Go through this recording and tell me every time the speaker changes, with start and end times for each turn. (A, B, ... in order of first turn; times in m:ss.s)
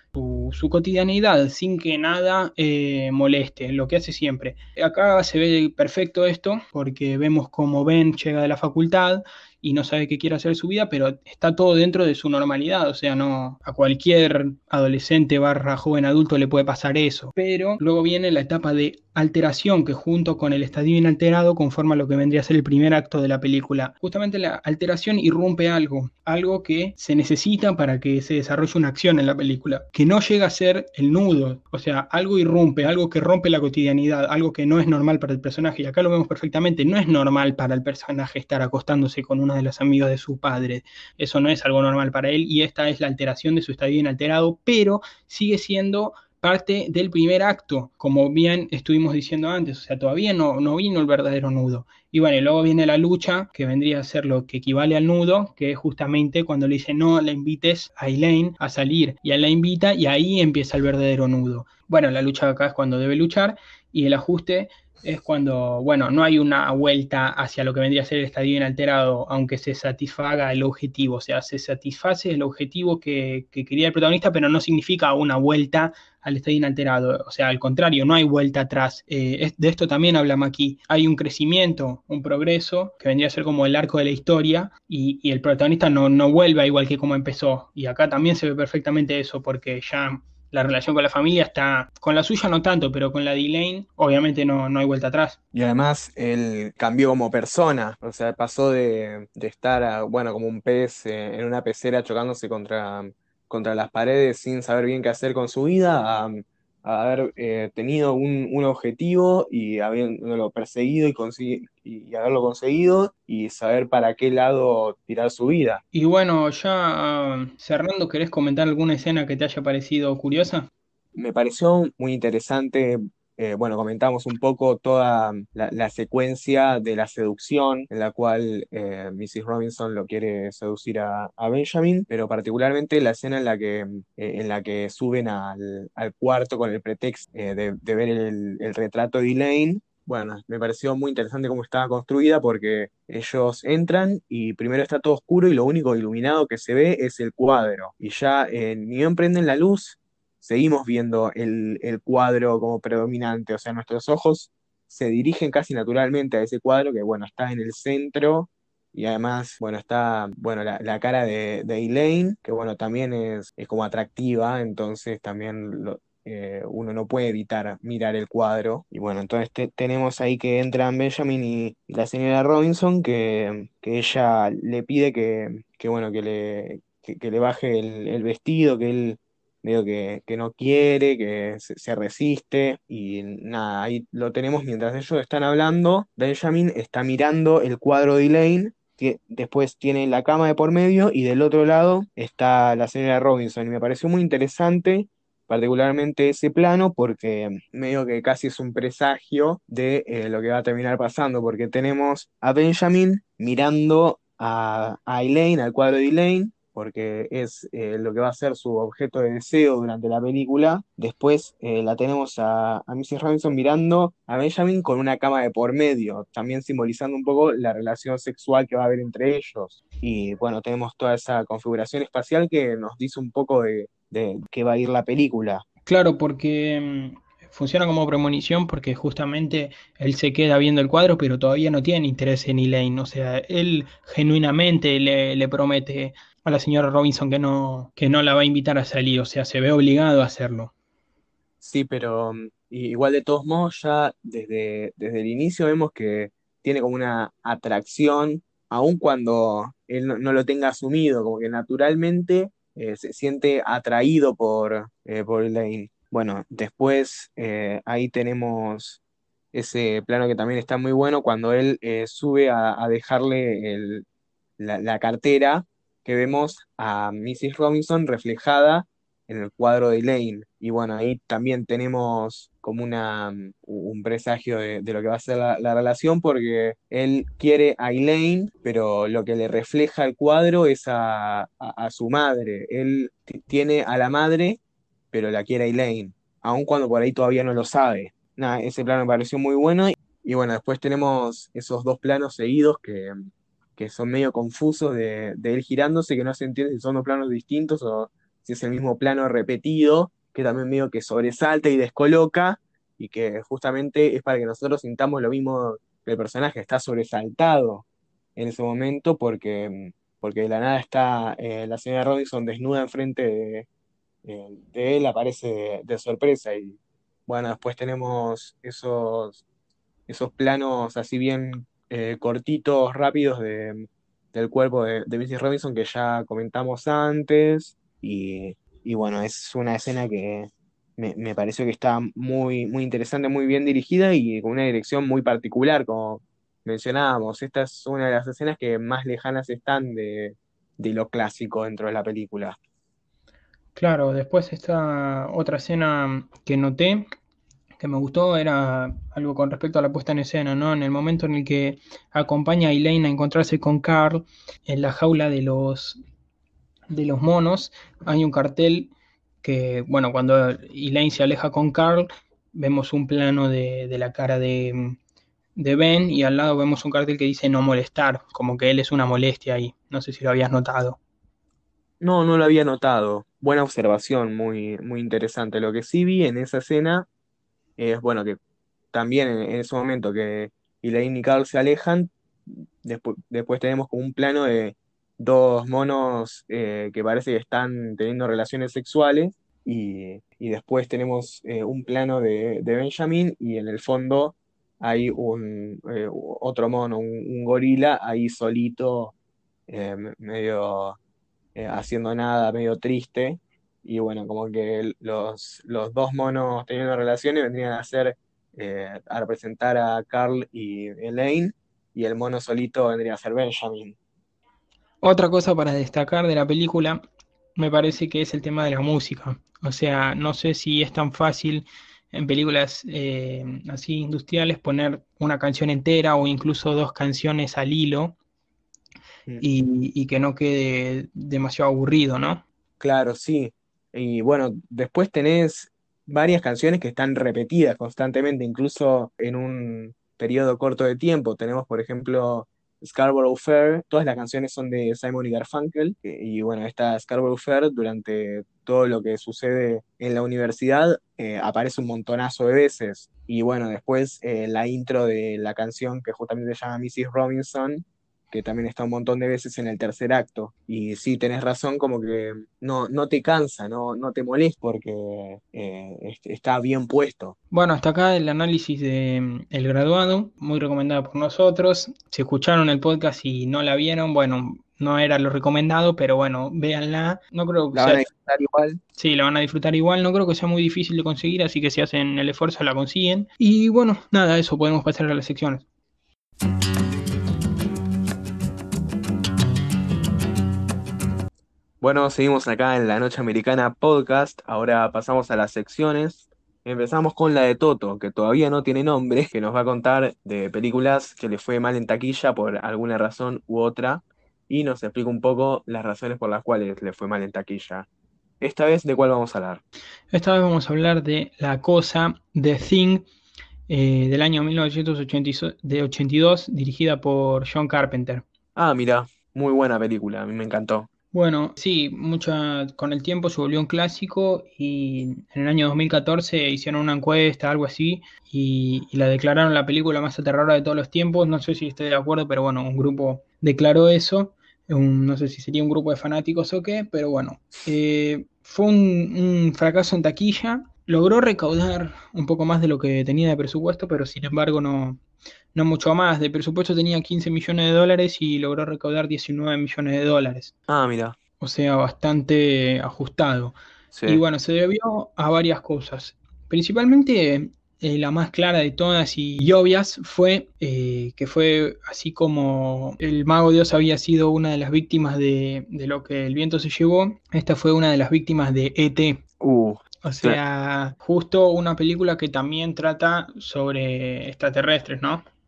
0:00.1-1:35.4 A
1:35.5-1:55.8 B
1:55.9-2:00.7 A
2:01.2-3:45.6 B
3:45.9-4:00.7 A
4:01.6-4:19.0 B
4:19.5-4:24.0 B
4:24.6-4:44.6 B
4:45.1-4:53.2 B
4:53.8-5:07.8 B
5:08.4-5:13.7 B
5:14.2-5:19.4 B
5:20.1-5:42.6 B
5:43.8-5:47.1 A
5:47.8-5:56.0 A
5:56.9-5:58.9 A
5:59.4-6:05.0 A
6:05.6-6:11.0 A
6:12.0-6:17.1 B
6:17.8-6:18.4 B
6:18.9-6:39.1 B
6:39.7-6:41.0 B
6:41.6-6:54.0 B
6:55.0-6:57.0 A
6:57.6-7:08.2 A
7:09.4-7:12.4 A
7:12.8-7:47.4 B
7:47.5-7:58.1 A
7:57.7-7:58.8 B
7:59.0-8:05.6 A
8:11.8-8:27.9 B
8:28.4-8:29.6 B
8:30.1-8:33.1 A
8:33.7-8:38.2 A
8:38.6-8:40.9 B
8:41.1-9:05.0 A
9:05.6-9:10.5 A
9:10.7-9:11.2 B
9:11.4-9:13.6 A
9:13.9-9:14.2 B
9:14.1-9:29.2 A
9:29.4-9:30.4 B
9:30.0-9:35.2 A